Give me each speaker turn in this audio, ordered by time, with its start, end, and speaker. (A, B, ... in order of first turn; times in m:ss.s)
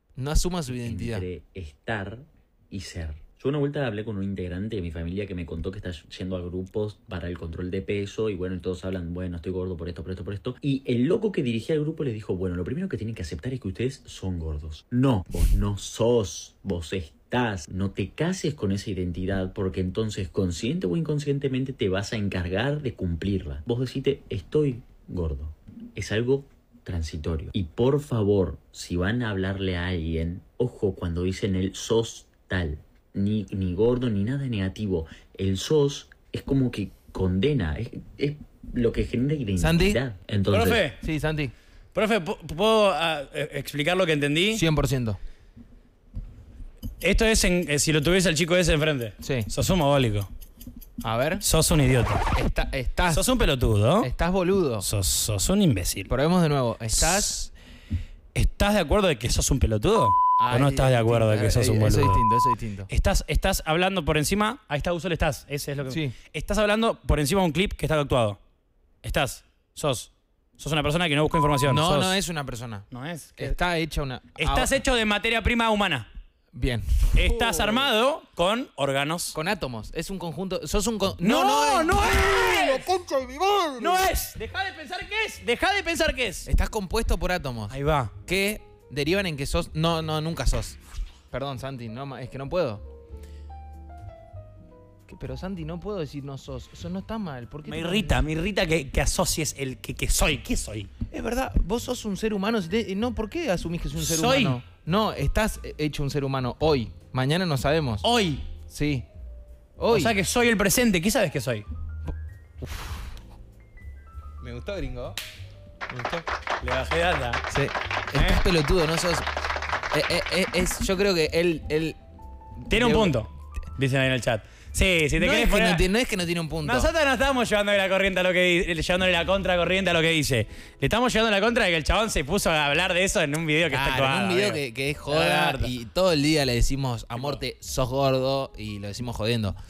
0:00.2-0:01.2 A
0:00.8-0:40.9 B
0:39.6-0:40.0 A
0:40.5-0:41.0 C
0:41.0-0:41.5 A
0:42.0-0:44.6 C
0:44.5-0:45.2 A
0:47.0-0:50.3 C
0:49.2-0:49.5 A
0:51.0-0:51.4 A
0:51.4-0:52.2 C
0:52.3-0:53.3 A
0:53.1-0:54.1 C
0:54.0-0:54.9 A
0:54.8-0:56.1 C
0:56.1-0:57.3 A
0:56.9-0:57.5 C
0:58.4-1:02.2 C
1:00.4-1:02.9 A
1:02.9-1:08.4 C
1:05.9-1:06.2 A
1:09.0-1:12.1 C
1:11.6-1:14.7 A
1:12.9-1:13.5 C
1:14.4-1:16.1 C
1:16.5-1:17.9 A
1:17.1-1:19.4 C
1:19.3-1:24.1 A
1:21.2-1:22.9 C
1:23.8-1:26.5 C
1:26.5-1:30.8 A
1:27.7-1:28.1 C
1:31.3-1:32.8 A
1:35.1-1:38.2 A
1:37.7-1:40.9 C
1:41.1-1:48.1 A
1:44.0-1:44.6 C
1:48.0-1:48.4 C
1:48.7-1:49.1 A
1:49.8-1:50.2 A
1:49.9-1:51.7 C
1:52.1-1:53.1 A
1:54.4-1:55.2 A
1:55.9-1:56.2 A
1:56.6-1:57.4 C
1:57.5-1:59.3 A
1:58.1-1:58.4 C
1:59.9-2:02.0 A
2:02.6-2:03.2 A
2:02.7-2:05.8 C
2:05.2-2:06.9 A
2:06.6-2:15.7 C
2:13.7-2:19.6 A